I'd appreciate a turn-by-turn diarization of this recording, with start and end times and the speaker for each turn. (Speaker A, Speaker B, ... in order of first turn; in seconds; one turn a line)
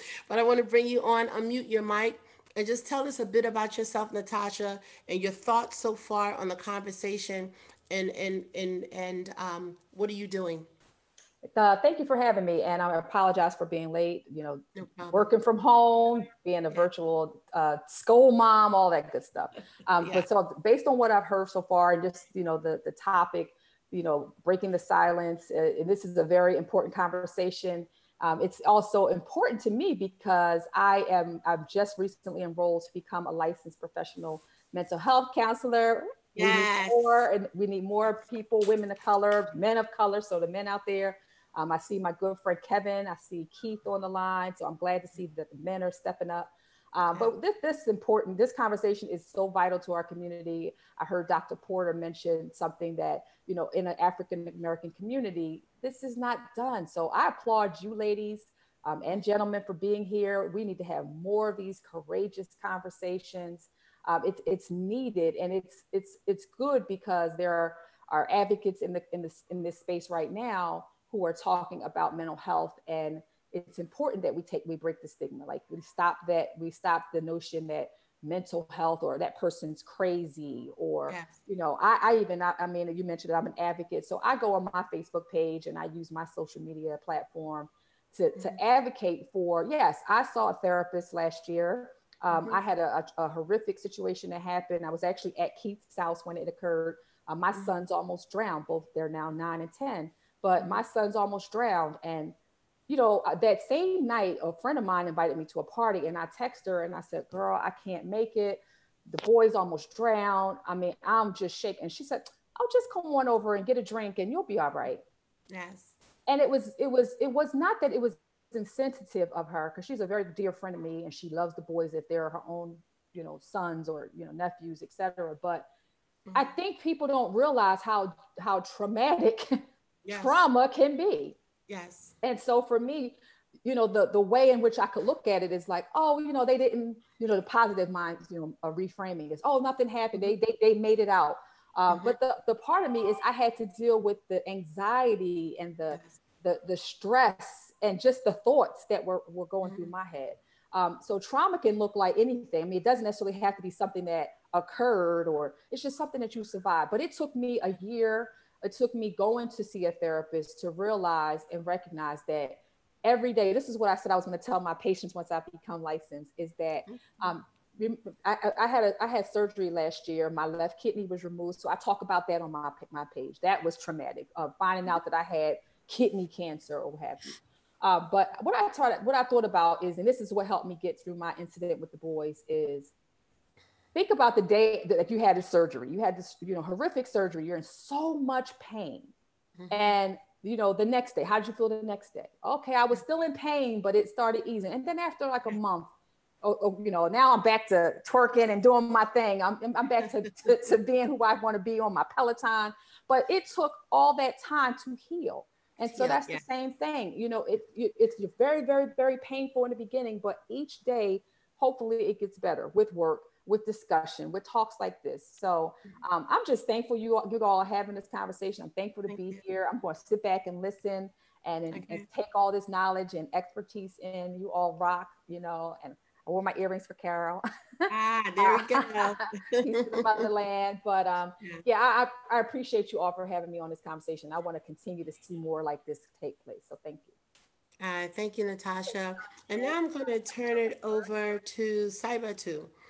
Speaker A: 0.3-10.7
Speaker B: 11.4-102.3
Speaker A: 14.8-15.3
Speaker A: 20.0-20.3
Speaker A: 36.4-37.2
Speaker A: 81.1-81.4
Speaker A: 92.3-92.6
Speaker A: 100.6-100.8
Speaker B: 102.9-115.0
Speaker A: 115.5-116.0
Speaker B: 116.3-125.7
Speaker A: 126.3-126.5
Speaker B: 126.3-129.6
Speaker A: 130.1-130.4
Speaker B: 130.2-131.4
Speaker A: 131.7-132.2
Speaker B: 132.2-182.9
Speaker A: 141.9-142.2
Speaker A: 149.6-149.9
Speaker A: 166.9-167.4
Speaker B: 183.9-189.1
Speaker A: 189.6-190.0
Speaker B: 189.7-195.9
Speaker B: 196.4-237.1
Speaker A: 205.9-206.4
Speaker A: 219.1-219.4
Speaker A: 221.7-222.1
Speaker A: 227.9-230.3
Speaker A: 237.8-242.7